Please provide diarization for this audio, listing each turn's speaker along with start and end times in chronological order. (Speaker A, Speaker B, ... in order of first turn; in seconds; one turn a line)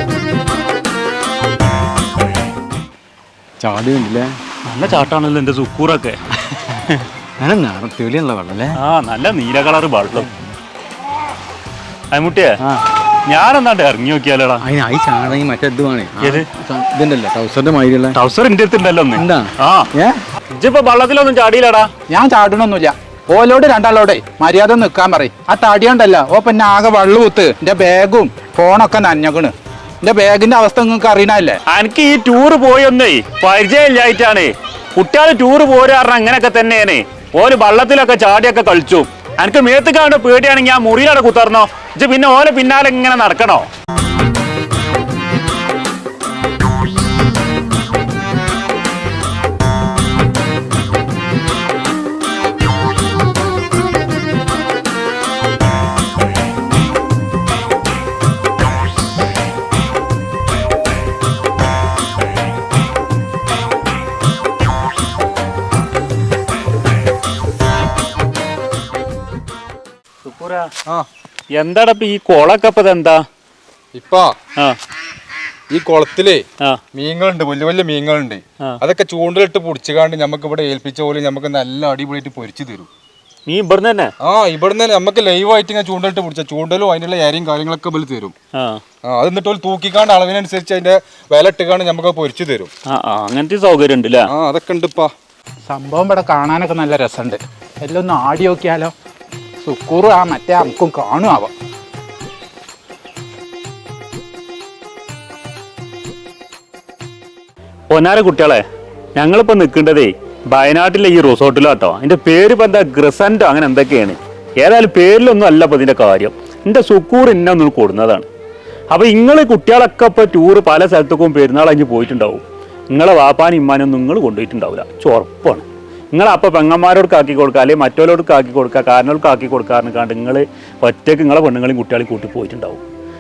Speaker A: 3.6-4.4
Speaker B: 4.7-6.2
Speaker A: 6.3-8.8
Speaker B: 8.8-10.3
Speaker A: 10.1-10.5
Speaker B: 12.1-12.6
Speaker B: 13.3-14.6
Speaker A: 14.6-18.2
Speaker B: 18.1-19.9
Speaker A: 19.1-20.2
Speaker B: 20.5-21.9
Speaker C: 22.1-29.5
Speaker C: 30.1-31.6
Speaker B: 31.7-43.7
Speaker B: 70.2-70.7
Speaker B: 71.5-73.2
Speaker D: 73.9-74.3
Speaker D: 75.7-82.9
Speaker B: 83.5-84.1
Speaker D: 84.2-88.3
Speaker B: 88.6-88.8
Speaker D: 89.1-92.7
Speaker B: 92.9-94.3
Speaker D: 94.3-95.1
Speaker C: 95.7-98.9
Speaker C: 99.6-101.5
Speaker B: 107.9-108.6
Speaker B: 109.2-118.3
Speaker B: 118.9-132.8